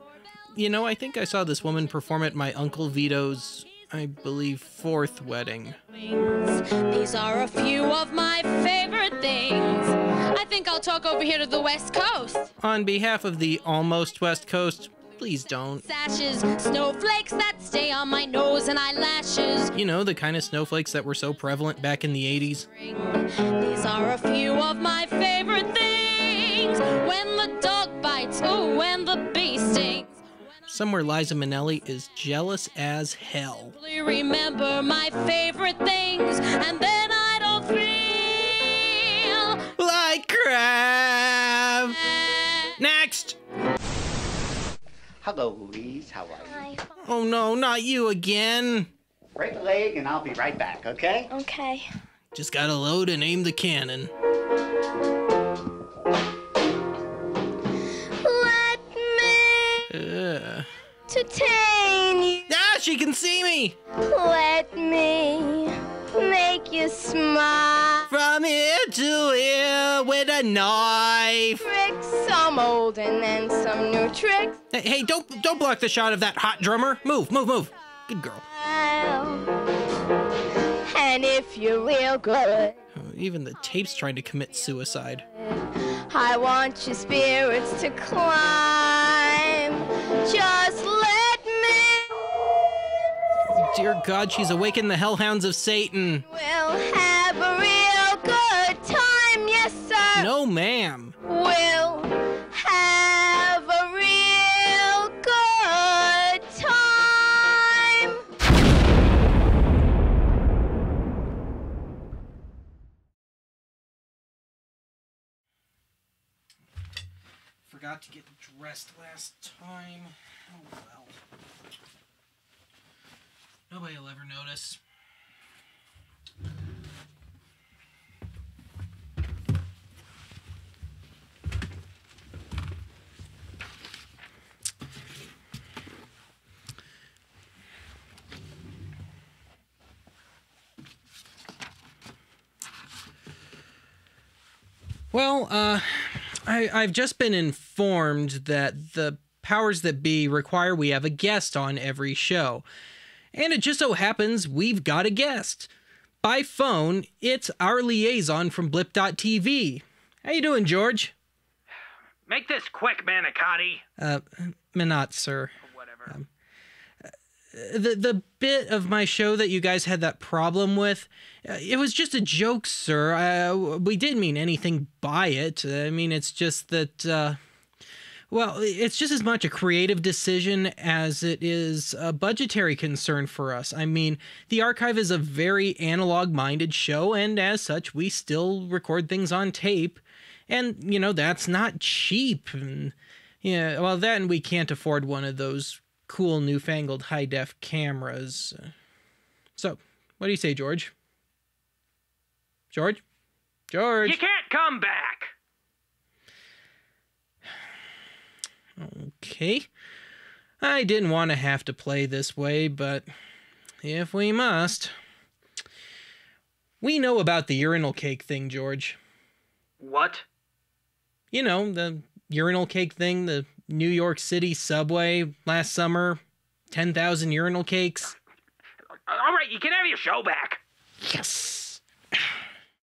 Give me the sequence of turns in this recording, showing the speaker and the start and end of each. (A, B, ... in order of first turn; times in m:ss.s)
0:00.5-0:05.8 A
0:05.9-0:12.5 B
0:12.6-0:15.8 A
0:15.8-0:19.7 B
0:19.7-0:22.6 A
0:22.7-0:30.2 B
0:30.7-0:33.7 A
0:33.7-0:39.6 B
0:39.8-0:42.0 A
0:42.8-0:43.4 A
0:45.2-0:46.6 C
0:47.0-0:48.9 A
0:49.4-0:51.3 C
0:51.4-0:51.9 B
0:52.3-0:54.1 A
0:58.2-0:59.8 D
0:59.9-1:00.7 A
1:01.1-1:02.4 D
1:02.5-1:03.8 A
1:04.1-1:08.0 D
1:08.1-1:11.6 A
1:11.6-1:14.6 D
1:14.7-1:18.4 A
1:18.6-1:19.5 D
1:20.9-1:22.7 D
1:22.9-1:25.2 A
1:26.1-1:32.1 D
1:30.8-1:31.6 B
1:33.5-1:36.2 A
1:36.3-1:40.2 D
1:37.9-1:38.5 B
1:40.1-1:41.1 A
1:41.3-1:42.8 D
1:42.7-1:44.7 B
1:43.4-1:48.2 D
1:45.3-1:46.4 B
1:57.6-2:01.2 A
2:03.7-2:04.8 A
2:25.1-2:32.6 A
2:33.3-2:35.7 A
2:36.2-2:41.1 A
2:42.5-2:43.8 E
2:44.0-2:45.5 A
2:47.5-2:57.4 A
2:58.3-3:18.7 A
3:19.6-3:20.9 A
3:22.7-3:23.0 A
3:23.7-3:24.2 A
3:24.0-3:25.3 E
3:28.8-3:29.7 A
3:30.6-3:33.1 A
3:33.8-3:34.9 A
3:36.8-3:39.0 A
3:39.8-3:40.2 E
3:41.3-3:46.2 A
3:46.7-3:48.1 A
3:49.2-3:50.4 E
3:51.0-3:51.8 A